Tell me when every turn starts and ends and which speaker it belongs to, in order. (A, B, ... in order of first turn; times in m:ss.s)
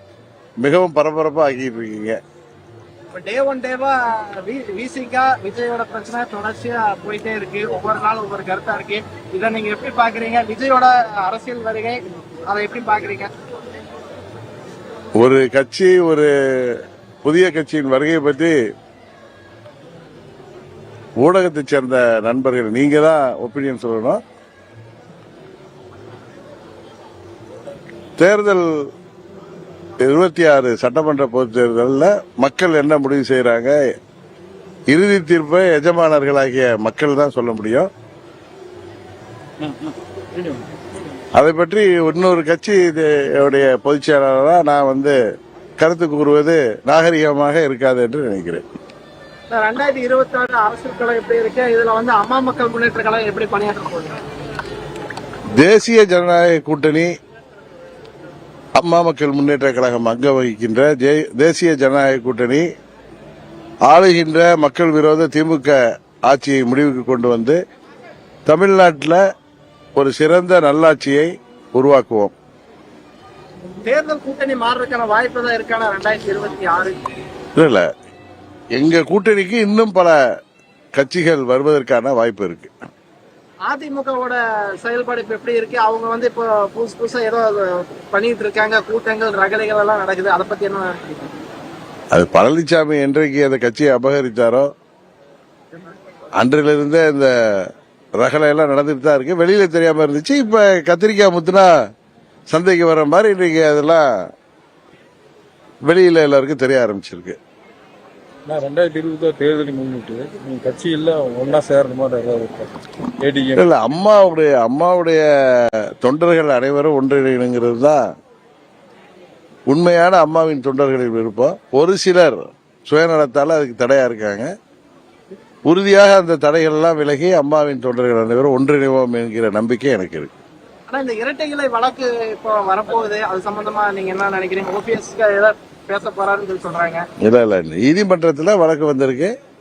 0:00.6-0:02.2 A
0:03.1-0:13.4 B
0:15.2-0:18.6 A
0:21.2-0:24.2 A
0:28.2-0:28.7 A
0:30.0-0:33.8 A
0:34.9-0:37.9 A
0:40.4-0:40.6 C
0:41.4-0:45.2 A
0:45.8-0:48.6 A
0:49.5-0:54.2 B
0:55.6-0:57.1 A
0:58.8-1:02.6 A
1:03.9-1:07.6 A
1:08.5-1:09.2 A
1:10.0-1:12.3 A
1:13.8-1:17.0 B
1:17.6-1:17.9 A
1:18.8-1:20.2 A
1:21.0-1:22.7 A
1:23.7-1:31.4 B
1:32.1-1:34.7 A
1:36.4-1:41.7 A
1:42.5-1:44.0 A
1:45.9-1:47.4 A
1:48.5-1:53.7 C
1:53.6-1:58.0 A
1:59.7-2:04.5 A
2:05.7-2:10.3 A
2:10.9-2:17.0 B
2:17.2-2:19.3 A